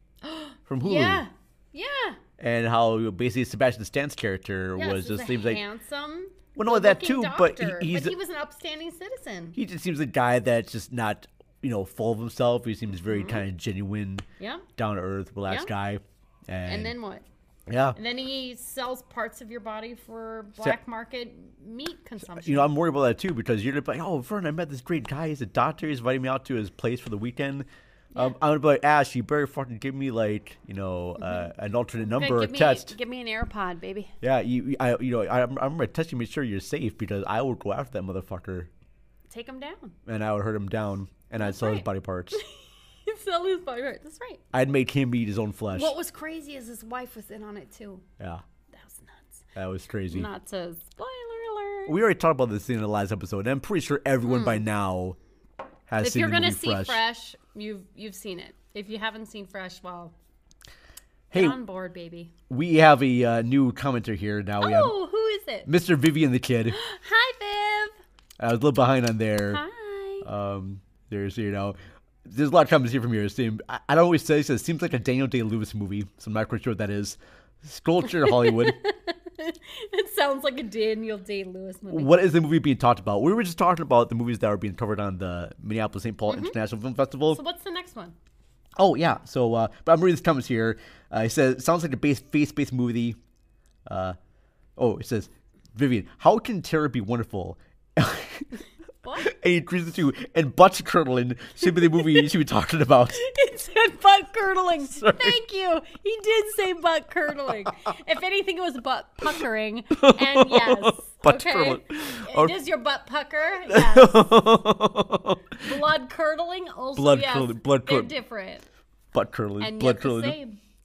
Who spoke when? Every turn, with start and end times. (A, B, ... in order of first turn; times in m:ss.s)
0:00.2-0:02.2 A
0:00.7-0:01.2 B
0:02.4-0:05.6 B
0:04.8-0:09.6 A
0:06.6-0:08.2 B
0:09.6-0:14.2 B
0:13.0-0:13.4 A
0:14.4-0:14.7 A
0:14.8-0:16.9 B
0:16.6-0:17.2 A
0:17.7-0:18.0 B
0:17.9-0:22.7 A
0:22.3-0:33.0 B
0:31.2-0:31.5 A
0:32.0-0:34.1 A
0:34.2-0:38.7 B
0:39.3-0:40.0 A
0:40.0-0:42.4 B
0:41.4-0:44.4 A
0:44.5-0:45.9 B
0:45.7-0:48.0 A
0:48.2-0:48.4 B
0:48.7-0:49.4 A
0:49.6-0:50.3 B
0:50.1-0:52.0 A
0:51.9-0:55.2 B
0:54.2-0:54.6 A
0:55.9-0:57.0 B
0:56.0-1:00.1 A
1:01.3-1:01.6 B
1:01.3-1:02.3 A
1:02.5-1:04.9 B
1:04.6-1:05.7 A
1:05.6-1:06.8 B
1:06.7-1:08.0 A
1:08.4-1:09.6 B
1:09.5-1:10.3 A
1:10.2-1:18.8 B
1:18.0-1:22.2 A
1:21.9-1:27.4 B
1:26.3-1:26.6 A
1:27.3-1:28.2 A
1:28.8-1:33.2 B
1:33.9-1:34.2 B
1:34.8-1:38.5 B
1:39.0-1:39.3 A
1:39.2-1:43.2 B
1:41.9-1:42.2 A
1:43.2-1:54.3 A
1:44.8-1:45.4 B
1:50.0-1:52.6 B
1:53.7-1:55.7 B
1:55.6-1:58.6 A
1:57.0-1:58.1 B
1:59.1-2:00.4 B
1:59.6-2:00.6 A